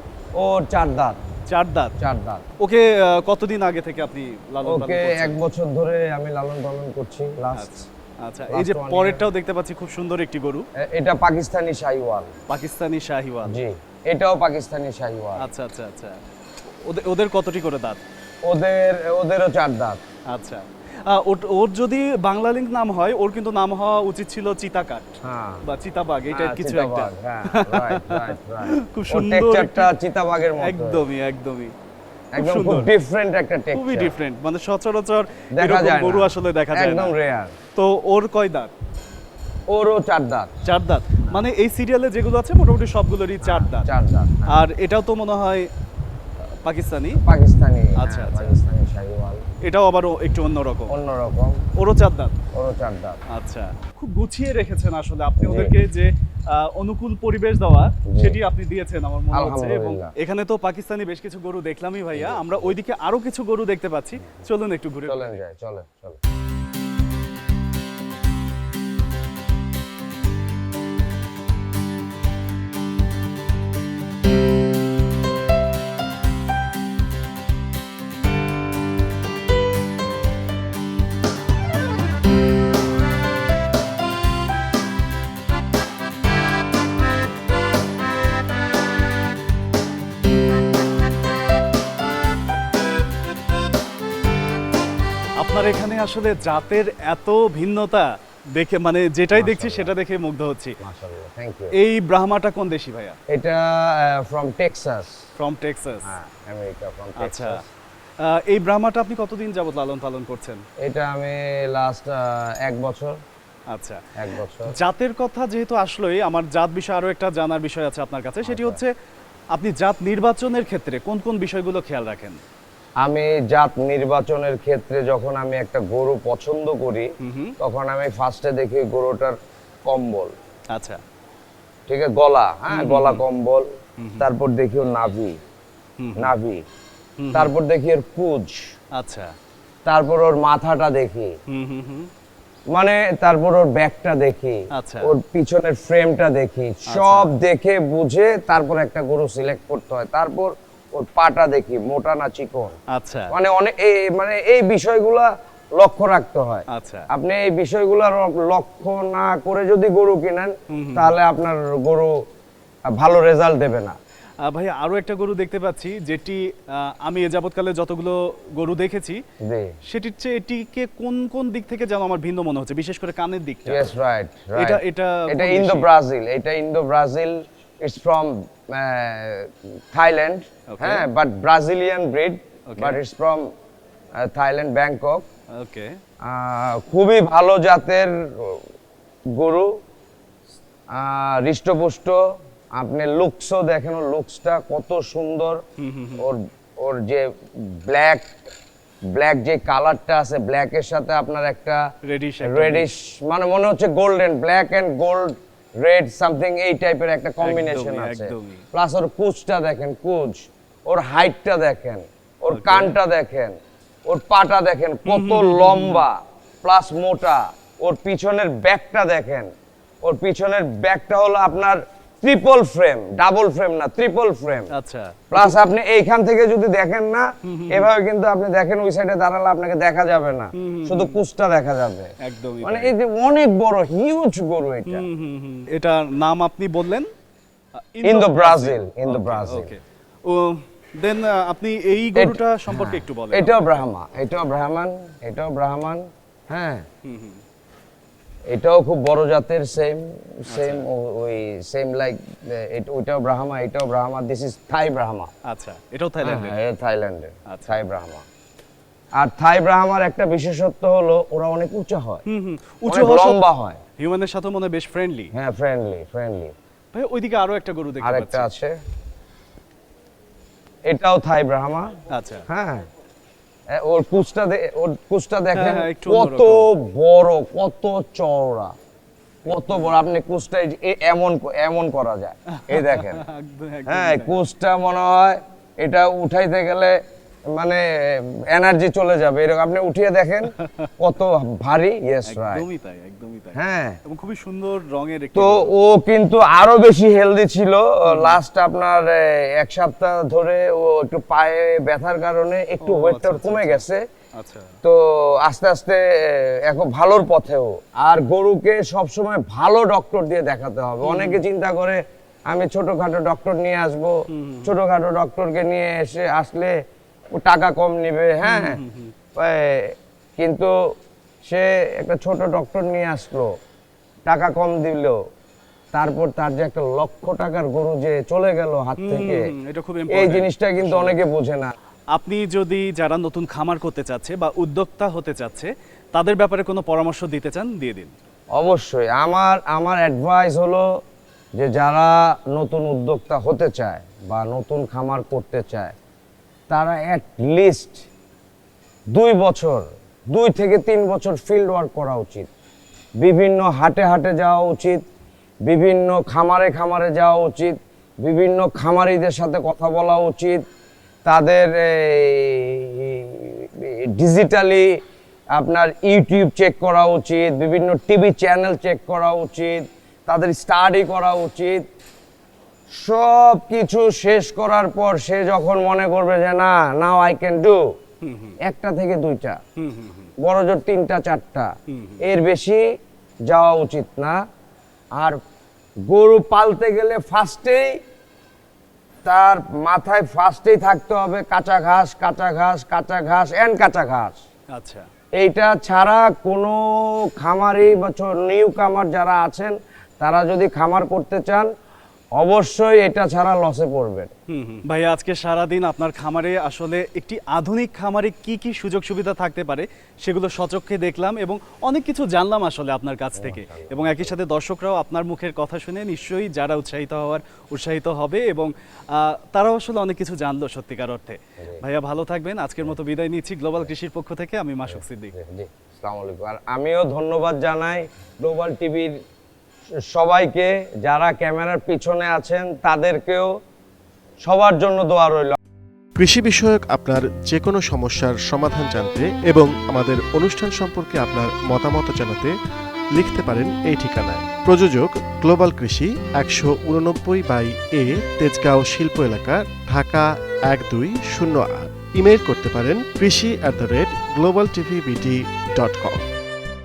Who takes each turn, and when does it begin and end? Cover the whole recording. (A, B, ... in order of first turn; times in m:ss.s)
0:00.3-0:01.2 A
0:01.5-0:01.9 B
0:02.0-0:02.4 A
0:02.6-0:05.4 B
0:04.6-0:07.8 A
0:07.6-0:10.6 B
0:08.5-0:09.2 A
0:10.8-0:12.4 A
0:12.5-0:13.6 B
0:13.4-0:15.5 A
0:15.4-0:16.2 B
0:16.8-0:18.0 B
0:18.4-0:20.0 A
0:20.3-0:25.1 B
0:25.2-0:25.6 A
0:25.6-0:29.9 B
0:26.3-0:31.0 A
0:30.6-0:31.7 B
0:32.3-0:34.1 A
0:32.4-0:32.9 B
0:33.7-0:37.1 B
0:35.5-0:37.5 A
0:37.7-0:38.7 B
0:39.7-0:40.5 A
0:40.6-0:43.9 B
0:43.4-0:44.6 A
0:44.5-0:45.7 B
0:46.6-0:47.2 B
0:47.2-0:49.4 A
0:48.0-0:48.6 B
0:49.6-0:50.9 B
0:50.9-0:51.6 A
0:51.8-0:52.3 B
0:52.5-0:53.2 A
0:53.3-1:05.3 B
0:55.4-0:55.7 A
0:58.1-0:58.4 A
0:59.3-1:00.1 A
1:02.1-1:02.7 A
1:05.1-1:06.2 A
1:35.4-1:40.8 B
1:39.3-1:39.9 A
1:40.8-1:41.7 A
1:41.7-1:43.2 B
1:43.3-1:45.2 A
1:45.4-1:46.1 B
1:46.0-1:47.7 A
1:47.2-1:47.6 B
1:48.2-1:50.6 B
1:50.8-1:53.2 A
1:53.7-1:54.0 B
1:54.2-1:54.7 A
1:54.7-1:58.9 B
1:58.4-1:58.8 A
1:59.5-2:02.4 B
2:03.0-2:07.1 A
2:07.2-2:07.5 B
2:07.6-2:10.3 A
2:10.7-2:11.0 B
2:11.9-2:13.7 A
2:12.7-2:13.2 B
2:14.0-2:14.3 B
2:14.2-2:15.4 A
2:16.0-2:16.3 B
2:16.2-2:16.6 A
2:17.2-2:17.5 B
2:17.3-2:18.6 A
2:19.0-2:19.3 B
2:19.8-2:21.3 A
2:21.5-2:22.1 B
2:22.7-2:32.8 A
2:24.7-2:25.1 B
2:26.9-2:27.3 B
2:32.9-2:33.3 B
2:33.3-2:42.1 A
2:36.7-2:37.0 B
2:40.7-2:41.1 B
2:42.9-2:44.0 A
2:44.4-2:49.2 B
2:49.4-2:49.7 A
2:49.8-2:53.9 B
2:53.7-3:03.5 A
2:54.5-2:55.9 B
3:00.7-3:01.1 B
3:02.7-3:03.0 B
3:04.2-3:05.2 A
3:05.6-3:05.9 B
3:06.2-3:08.6 A
3:09.3-3:09.7 A
3:10.9-3:12.2 A
3:12.7-3:15.6 A
3:15.8-3:16.2 B
3:16.2-3:18.3 A
3:19.1-3:21.8 A
3:22.0-3:22.9 B
3:22.4-3:33.5 A
3:27.4-3:28.6 B
3:32.5-3:32.9 B
3:34.0-3:39.5 A
3:35.1-3:36.0 B
3:40.0-3:44.7 A
3:44.7-3:45.5 B
3:45.3-3:52.1 A
3:47.4-3:47.9 B
3:50.6-3:51.2 B
3:52.2-3:52.9 B
3:52.6-3:55.1 A
3:54.8-3:57.1 B
3:57.8-4:03.8 B
3:58.0-3:59.7 A
4:02.1-4:06.8 A
4:07.0-4:07.4 B
4:08.5-4:15.3 A
4:10.5-4:10.8 B
4:15.5-4:16.6 B
4:16.2-4:18.2 A
4:17.5-4:17.7 B
4:19.2-4:22.2 A
4:22.2-4:23.4 B
4:22.8-4:23.8 A
4:24.0-4:25.3 B
4:25.3-4:26.5 A
4:26.9-4:28.5 B
4:28.0-4:28.7 A
4:30.8-4:31.9 A
4:32.1-4:32.4 B
4:32.5-4:32.8 A
4:33.7-4:38.7 A
4:35.5-4:36.6 B
4:39.4-4:43.2 A
4:42.5-4:44.4 B
4:43.9-4:47.0 A
4:47.5-4:52.6 A
4:52.3-4:55.7 B
4:53.5-4:54.0 A
4:55.3-5:04.0 A
4:58.1-4:58.4 B
5:02.8-5:03.8 B
5:04.4-5:04.7 B
5:04.8-5:16.7 A
5:11.0-5:11.4 B
5:14.3-5:14.7 B
5:17.3-5:18.8 A
5:18.4-5:19.1 B
5:19.4-5:20.7 A
5:21.4-5:23.5 A
5:24.3-5:25.2 A
5:25.9-5:29.5 A
5:29.0-5:31.2 B
5:30.1-5:31.7 A
5:32.1-5:38.1 B
5:38.5-5:40.8 A
5:41.6-5:45.9 A
5:46.7-5:48.1 A
5:49.1-5:52.5 A
5:53.2-5:55.0 A
5:55.6-6:00.6 A
6:01.2-6:04.9 A
6:05.5-6:11.8 A
6:13.0-6:17.8 A
6:18.2-6:18.6 B
6:18.6-6:19.6 A
6:19.8-6:20.3 B
6:20.4-6:21.7 A
6:21.9-6:22.2 B
6:22.2-6:22.8 A
6:23.5-6:24.4 A
6:26.1-6:28.0 A
6:29.2-6:34.4 A
6:34.7-6:35.1 B
6:35.4-6:41.7 A
6:42.4-6:44.3 A
6:44.5-7:05.3 B
6:53.4-6:54.4 A
7:04.9-7:09.2 A
7:10.1-7:13.5 A
7:14.4-7:15.6 A
7:16.2-7:22.5 C
7:23.1-7:36.2 C